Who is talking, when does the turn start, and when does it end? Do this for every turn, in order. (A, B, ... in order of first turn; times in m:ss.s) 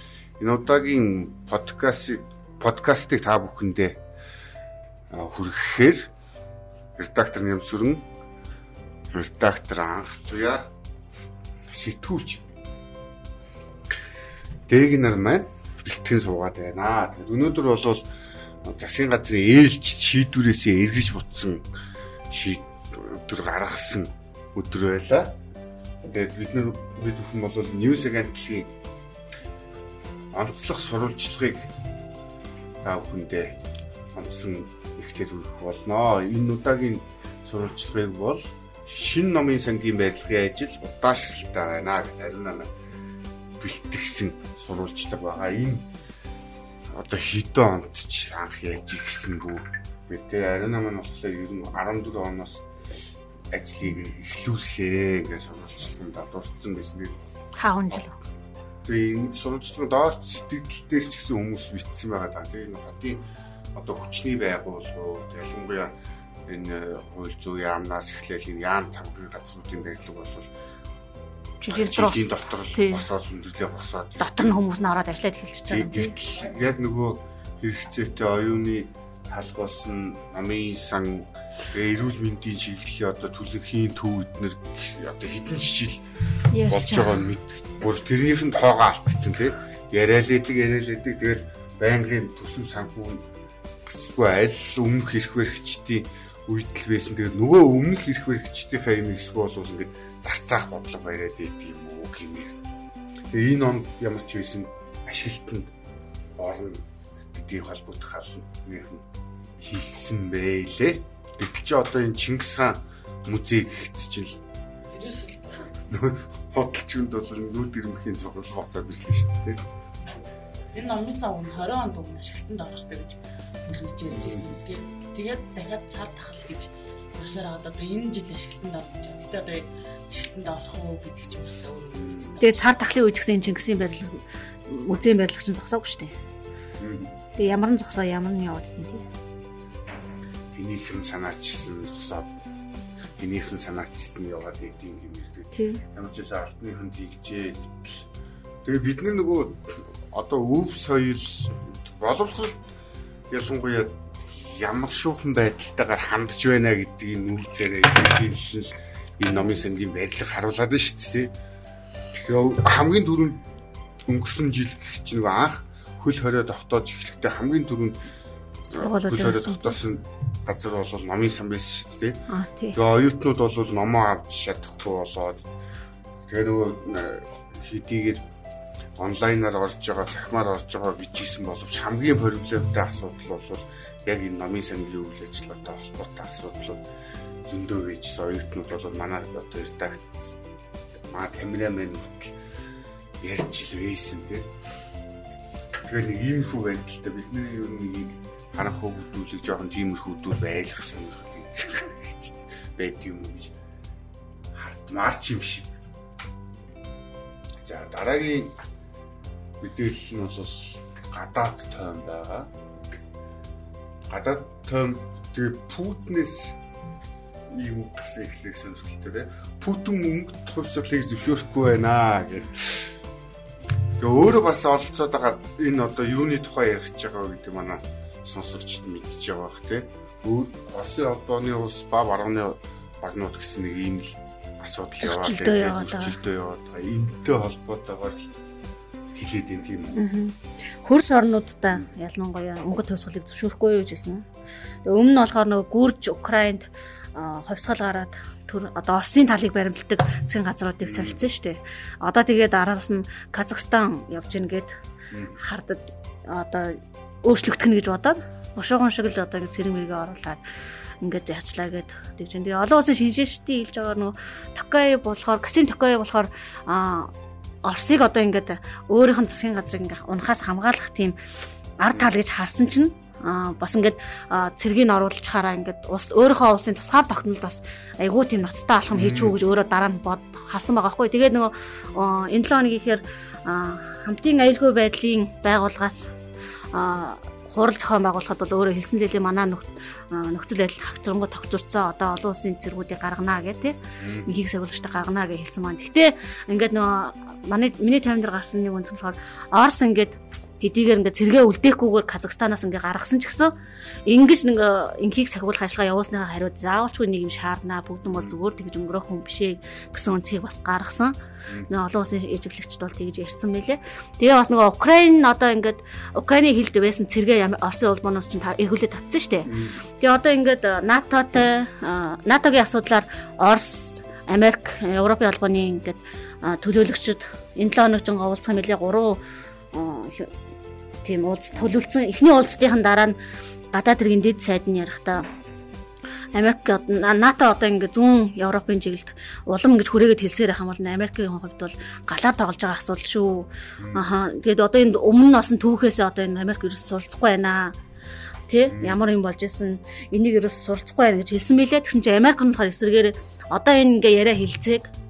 0:00.4-0:04.0 A
0:05.1-0:06.1 A
0:07.0-0:08.0 A
0:09.1-0:10.7 A
0:11.7-0:12.4 A
0:14.7-0:18.0 A
0:18.6-0:21.6 A
0:22.3-0:25.4 A
0:26.0-0:28.7 A
0:30.3-0:31.7 A
0:32.8-0:33.6 A
0:34.1-0:42.7 A
0:43.6-0:45.8 A
0:46.9-0:52.6 A
0:53.5-0:57.2 A
0:57.6-0:58.2 B
0:58.8-1:03.2 A
1:03.7-1:05.9 A
1:06.4-1:10.5 A
1:11.6-1:13.1 B
1:11.7-1:14.6 A
1:14.2-1:16.2 B
1:15.7-1:26.0 A
1:26.5-1:27.3 B
1:26.6-1:33.2 A
1:33.8-1:42.5 A
1:43.3-1:45.7 A
1:46.4-1:49.0 A
1:49.6-1:54.4 A
1:54.9-1:55.7 C
1:55.9-1:59.6 A
2:00.7-2:12.8 C
2:04.1-2:04.5 A
2:11.9-2:12.4 A
2:12.4-2:16.1 B
2:16.8-2:17.1 A
2:17.4-2:19.1 B
2:20.5-2:22.3 A
2:23.2-2:28.0 A
2:25.5-2:25.8 B
2:28.6-2:32.6 A
2:33.3-2:41.3 A
2:42.2-2:43.4 A
2:44.0-2:48.0 A
2:48.7-2:49.8 B
2:48.7-2:52.2 A
2:52.3-2:52.8 B
2:52.7-2:55.4 A
2:56.3-2:58.2 A
2:59.0-3:06.8 A
3:07.4-3:10.3 A
3:11.1-3:12.3 A
3:13.2-3:14.5 A
3:15.8-3:23.5 A
3:24.5-3:25.7 A
3:27.6-3:28.6 A
3:29.6-3:32.5 A
3:34.1-3:36.5 A
3:37.5-3:42.9 A
3:44.0-3:58.2 A
3:55.0-3:56.2 B
3:59.2-4:00.0 A
3:59.9-4:04.2 B
4:04.8-4:14.7 B
4:10.8-4:11.2 A
4:15.1-4:15.4 A
4:15.4-4:20.4 B
4:21.0-4:27.1 B
4:27.6-4:31.2 B
4:31.8-4:46.1 B
4:38.9-4:39.4 A
4:46.7-5:03.5 B
4:54.0-4:54.3 A
5:04.0-5:11.1 B
5:11.7-5:29.2 B
5:19.4-5:19.8 A
5:29.7-5:30.3 B
5:31.0-5:33.2 B
5:33.7-5:35.2 B
5:36.3-5:47.8 B
5:43.8-5:44.0 A
5:48.5-5:54.9 B
5:48.7-5:49.0 A